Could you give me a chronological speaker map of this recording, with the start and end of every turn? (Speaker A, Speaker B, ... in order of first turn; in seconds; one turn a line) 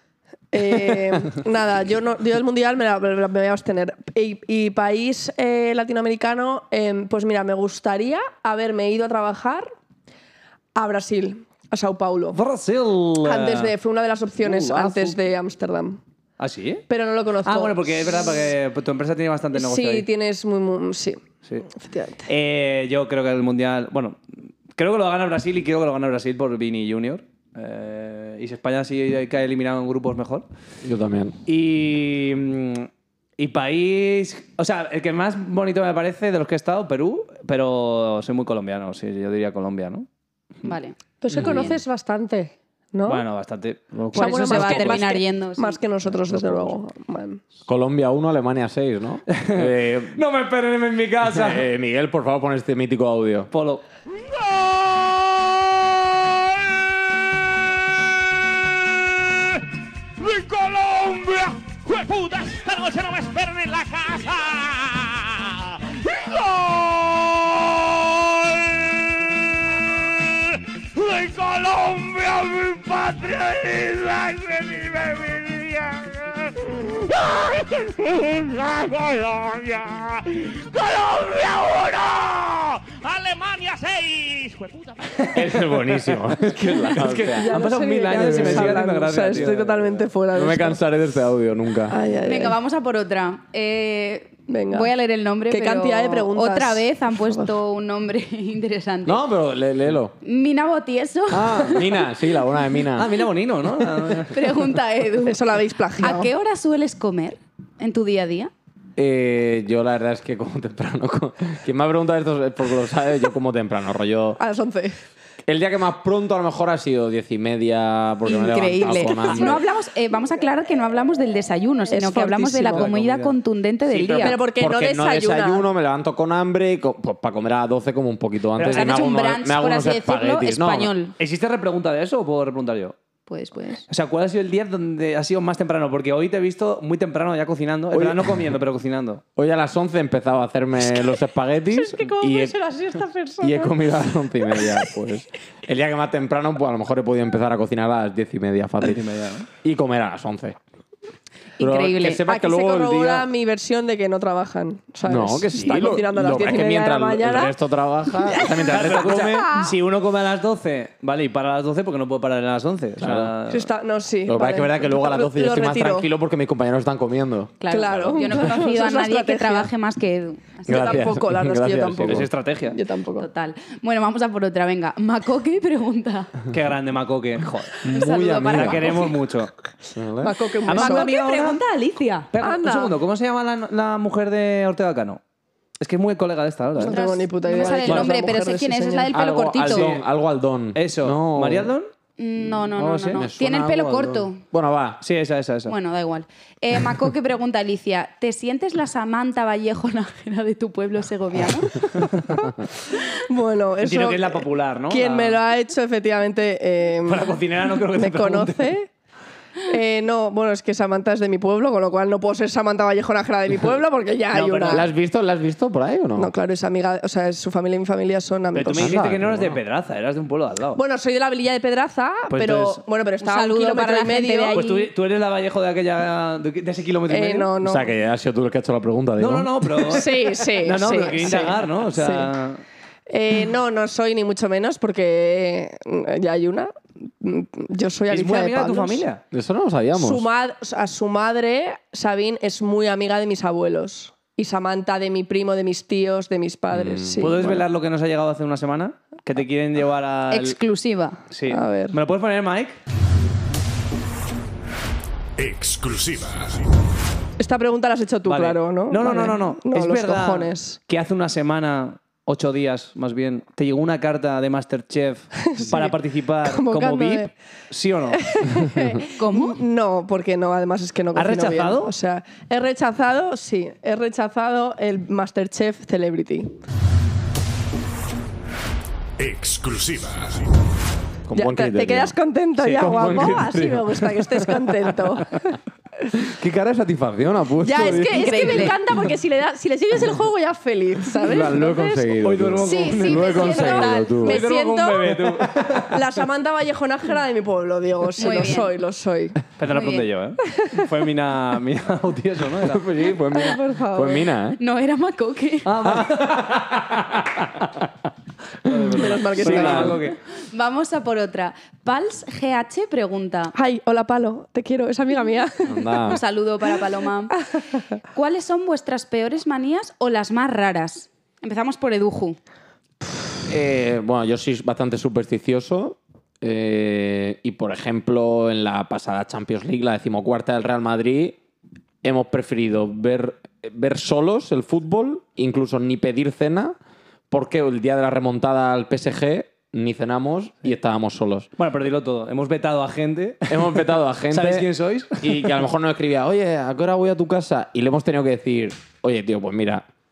Speaker A: 0.5-9.7
Speaker A: 10.8-12.4
Speaker B: 12.3-13.7
Speaker A: 13.2-16.0
Speaker B: 14.4-15.2
Speaker B: 16.4-16.9
Speaker A: 16.9-18.4
Speaker B: 17.4-20.1
Speaker A: 19.5-22.3
Speaker B: 22.3-24.2
Speaker B: 24.7-30.4
Speaker C: 30.8-31.4
Speaker B: 31.4-40.1
Speaker D: 40.6-41.8
Speaker A: 41.2-43.2
Speaker C: 41.3-41.6
Speaker B: 43.1-45.0
Speaker A: 44.1-47.4
Speaker D: 44.1-45.8
Speaker C: 46.2-46.7
Speaker C: 47.7-50.2
Speaker B: 49.3-51.6
Speaker C: 51.2-53.5
Speaker B: 53.5-53.8
Speaker E: 54.1-59.6
Speaker E: 60.2-85.6
Speaker C: 85.3-87.6
Speaker B: 86.9-90.0
Speaker A: 87.2-90.8
Speaker C: 88.1-88.9
Speaker C: 90.3-92.0
Speaker A: 91.9-92.6
Speaker D: 92.2-99.2
Speaker A: 94.5-94.9
Speaker A: 95.5-97.5
Speaker C: 99.0-100.1
Speaker D: 100.2-102.1
Speaker C: 101.3-103.2
Speaker B: 103.0-104.4
Speaker D: 104.3-105.5
Speaker A: 105.2-106.3
Speaker D: 106.0-108.5
Speaker C: 109.0-114.4
Speaker A: 114.4-115.0
Speaker C: 115.5-119.6
Speaker D: 118.3-124.4
Speaker A: 118.4-119.6
Speaker A: 121.9-122.9
Speaker B: 122.7-123.3
Speaker C: 123.9-130.9
Speaker A: 124.2-125.7
Speaker B: 128.6-129.1
Speaker D: 128.7-131.1
Speaker B: 131.2-132.9
Speaker D: 133.3-133.9
Speaker B: 133.9-139.2
Speaker C: 137.9-138.5
Speaker C: 139.4-142.6
Speaker A: 141.7-143.8
Speaker C: 143.4-149.0
Speaker A: 144.4-144.9
Speaker B: 148.8-149.5
Speaker C: 149.6-150.6
Speaker D: 151.6-152.2
Speaker C: 151.6-153.3
Speaker A: 152.2-157.6
Speaker C: 155.1-159.5
Speaker B: 155.5-155.8
Speaker A: 158.2-159.7
Speaker B: 158.6-163.7
Speaker C: 163.0-163.3
Speaker A: 163.5-166.1
Speaker C: 164.3-168.4
Speaker D: 167.6-171.2
Speaker A: 167.7-169.7
Speaker C: 170.7-172.3
Speaker A: 170.7-173.3
Speaker B: 172.0-172.8
Speaker D: 173.2-176.4
Speaker B: 176.5-177.8
Speaker C: 177.8-179.1
Speaker D: 177.9-179.2
Speaker B: 178.5-179.5
Speaker C: 179.9-180.3
Speaker A: 180.2-181.1
Speaker B: 180.7-181.6
Speaker D: 180.7-182.3
Speaker B: 182.3-185.2
Speaker A: 182.4-182.9
Speaker B: 185.8-187.0
Speaker A: 186.8-189.1
Speaker D: 186.8-189.9
Speaker B: 187.6-188.2
Speaker C: 189.1-191.7
Speaker B: 189.6-190.0
Speaker B: 190.8-191.9
Speaker D: 192.2-194.4
Speaker B: 192.8-193.2
Speaker C: 193.1-195.0
Speaker B: 195.0-195.7
Speaker D: 195.7-202.2
Speaker A: 203.1-208.9
Speaker B: 203.8-205.4
Speaker B: 207.1-208.8
Speaker A: 209.6-214.8
Speaker B: 214.3-214.9
Speaker C: 214.7-216.3
Speaker A: 216.2-219.0
Speaker B: 218.5-220.8
Speaker C: 218.7-219.6
Speaker A: 220.8-224.6
Speaker B: 222.3-222.8
Speaker D: 223.2-224.9
Speaker B: 224.5-227.5
Speaker A: 227.1-227.9
Speaker C: 227.6-229.9
Speaker B: 229.2-232.6
Speaker A: 229.9-232.3
Speaker A: 233.1-239.0
Speaker B: 238.1-239.2
Speaker C: 239.3-240.3
Speaker A: 239.9-247.6
Speaker C: 246.7-247.6
Speaker B: 247.2-250.6
Speaker D: 250.3-251.2
Speaker B: 251.3-252.8
Speaker A: 251.5-251.9
Speaker E: 255.4-256.7
Speaker A: 257.4-260.8
Speaker B: 258.3-268.2
Speaker A: 265.5-267.3
Speaker A: 268.1-276.5
Speaker D: 269.1-269.6
Speaker B: 271.1-271.9
Speaker E: 279.2-280.6
Speaker C: 281.3-282.1
Speaker A: 281.4-285.6
Speaker B: 282.6-283.4
Speaker C: 282.7-284.6
Speaker C: 286.2-288.8
Speaker A: 287.6-295.2
Speaker D: 287.8-288.8
Speaker C: 291.2-294.4
Speaker B: 292.2-293.5
Speaker D: 292.7-294.2
Speaker B: 294.2-295.9
Speaker C: 295.4-295.9
Speaker A: 295.8-299.4
Speaker D: 298.2-298.7
Speaker B: 299.6-302.8
Speaker D: 299.7-300.1
Speaker A: 300.5-300.8
Speaker C: 302.6-304.6
Speaker A: 303.3-304.3
Speaker D: 304.6-305.7
Speaker B: 305.6-306.5
Speaker C: 305.8-307.9
Speaker C: 308.6-310.0
Speaker B: 308.6-310.2
Speaker A: 308.9-310.1
Speaker D: 310.5-313.6
Speaker A: 313.6-316.1
Speaker C: 315.6-316.2
Speaker D: 316.0-317.4
Speaker A: 317.6-317.8
Speaker D: 318.1-322.4
Speaker C: 323.5-331.4
Speaker C: 332.0-336.8
Speaker C: 337.3-341.5
Speaker B: 341.6-345.6
Speaker C: 343.5-344.7
Speaker C: 345.2-349.9